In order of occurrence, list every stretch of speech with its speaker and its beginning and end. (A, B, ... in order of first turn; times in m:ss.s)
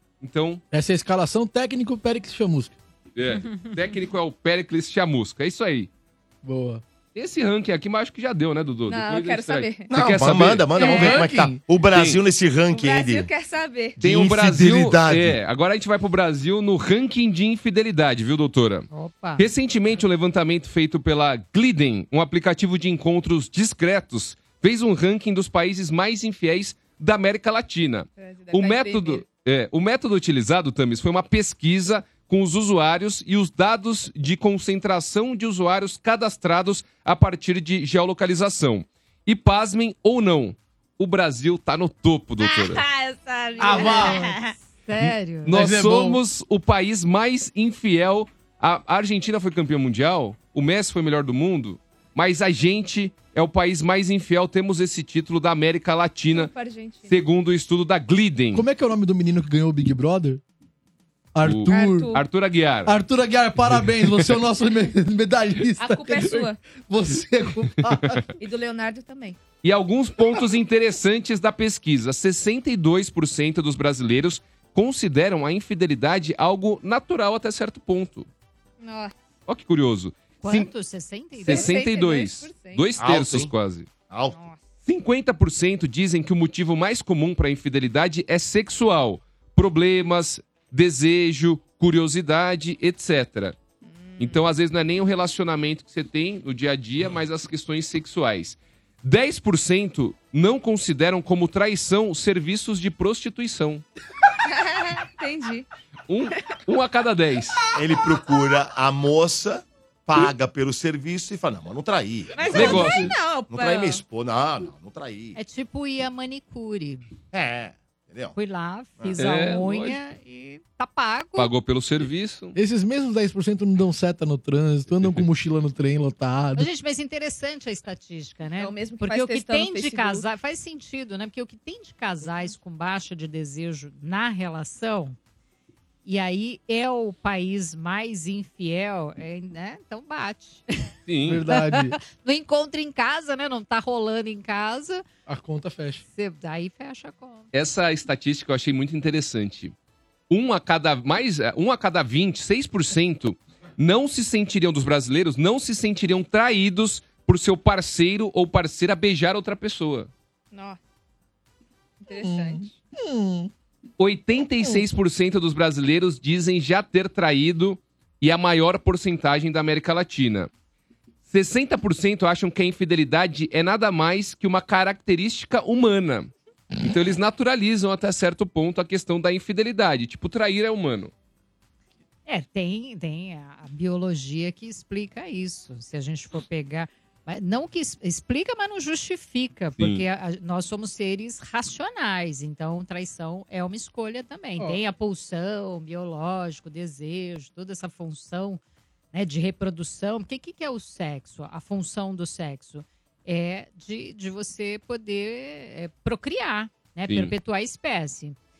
0:00.2-0:00.6 A
0:00.7-0:02.8 B
0:03.2-0:05.9 A
0:06.4-0:06.8 B
0:07.1-0:10.7 A
0:08.9-0:09.9 C
0:09.9-0:13.3 D
0:10.8-0:11.2 C
0:10.8-0:11.6 B
0:11.9-0:12.2 A
0:12.7-0:14.0 C
0:14.0-0:15.4 D
0:14.0-0:42.8 A
0:18.9-0:19.4 E
0:28.2-0:29.2 C
0:42.4-0:44.5 C
0:43.6-0:44.3 B
0:43.7-0:45.6 E
0:45.4-0:56.5 A
0:45.4-0:46.2 B
0:56.3-0:57.1 C
0:57.1-0:58.6 A
0:58.5-1:00.4 B
1:01.3-1:02.2 B
1:01.4-1:02.9 A
1:01.7-1:02.2 C
1:02.8-1:08.2 B
1:05.8-1:06.6 C
1:08.4-1:09.4 C
1:09.6-1:18.3 A
1:18.8-1:19.1 C
1:19.5-1:20.7 A
1:20.4-1:21.8 E
1:21.4-1:23.9 A
1:21.4-1:22.9 C
1:23.0-1:23.5 D
1:24.1-1:24.4 D
1:24.3-1:24.6 C
1:24.8-1:33.6 A
1:33.8-1:34.5 C
1:34.2-1:43.8 A
1:44.5-1:45.6 C
1:46.1-1:47.6 A
1:47.7-1:55.4 D
1:52.3-1:54.0 C
1:52.5-1:53.1 A
1:52.6-1:53.1 B
1:55.4-1:57.0 E
1:57.3-1:58.4 D
1:58.4-2:01.5 E
1:59.2-2:00.0 A
2:01.4-2:02.6 A
2:02.5-2:06.7 B
2:06.6-2:15.2 E
2:08.6-2:10.2 C
2:16.0-2:20.6 E
2:21.1-2:21.4 A
2:21.2-2:22.0 B
2:21.5-2:25.0 E
2:25.2-2:26.0 B
2:26.1-2:27.5 E
2:27.5-2:29.7 A
2:30.3-2:40.1 A
2:40.5-2:40.8 C
2:42.0-2:42.7 C
2:42.2-2:43.5 B
2:44.0-2:50.5 A
2:51.3-3:01.1 A
3:02.2-3:18.6 E
3:09.8-3:10.0 A
3:19.1-3:28.4 E